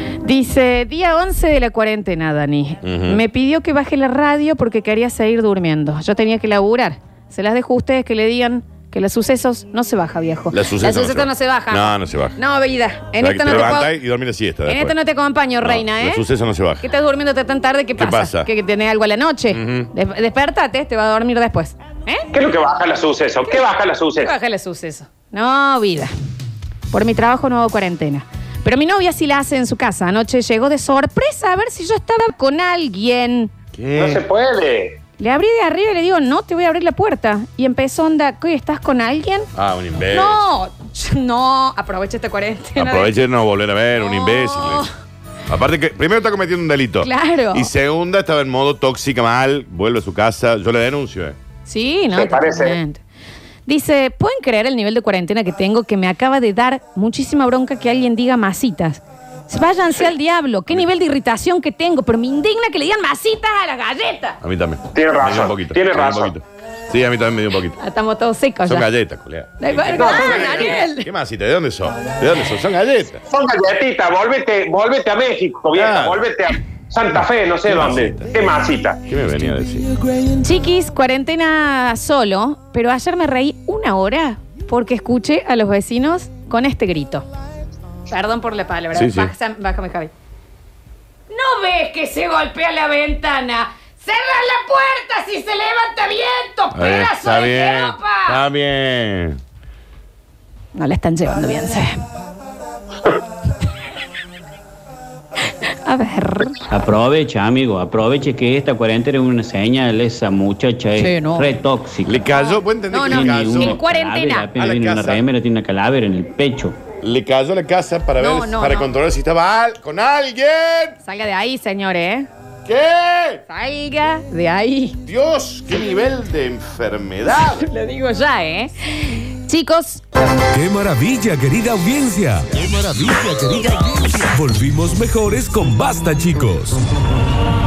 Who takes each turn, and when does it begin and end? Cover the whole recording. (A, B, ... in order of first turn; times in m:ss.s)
0:00.2-0:13.9 A
0:02.8-0:03.2 B
0:10.5-0:12.4 B
0:13.2-0:15.0 B
0:14.7-0:16.2 A
0:15.6-0:16.9 B
0:16.8-0:22.3 A
0:18.0-0:18.5 B
0:19.5-0:19.9 B
0:22.3-0:24.3 C
0:24.2-0:26.1 A
0:26.9-0:33.5 A
0:33.7-0:34.2 B
0:34.0-0:35.0 C
0:35.2-0:39.5 A
0:39.6-0:40.4 B
0:40.1-0:43.1 A
0:42.8-0:44.8 B
0:44.0-0:44.9 A
0:45.5-0:51.4 B
0:47.0-0:47.7 A
0:51.7-0:53.0 A
0:52.1-0:52.8 C
0:53.7-1:04.4 A
1:04.4-1:07.8 B
1:05.0-1:06.3 C
1:07.8-1:08.9 A
1:08.6-1:13.2 B
1:09.6-1:11.1 A
1:09.9-1:10.8 C
1:13.3-1:19.0 C
1:15.7-1:16.2 B
1:17.2-1:18.3 B
1:19.1-1:19.9 B
1:20.4-1:27.3 A
1:28.1-1:30.1 A
1:28.9-1:29.3 B
1:31.3-1:38.4 A
1:36.7-1:39.4 B
1:40.8-1:42.0 A
1:45.9-1:46.6 A
1:46.7-1:52.3 D
1:51.0-1:51.5 A
1:52.0-1:53.8 B
1:52.3-1:54.5 A
1:53.0-1:56.8 D
1:54.5-1:55.3 B
1:57.0-2:01.0 B
1:58.2-1:58.9 A
2:01.0-2:02.3 A
2:02.6-2:03.4 B
2:03.5-2:05.0 A
2:05.0-2:07.7 B
2:07.6-2:10.0 A
2:10.5-2:16.8 E
2:12.5-2:13.9 B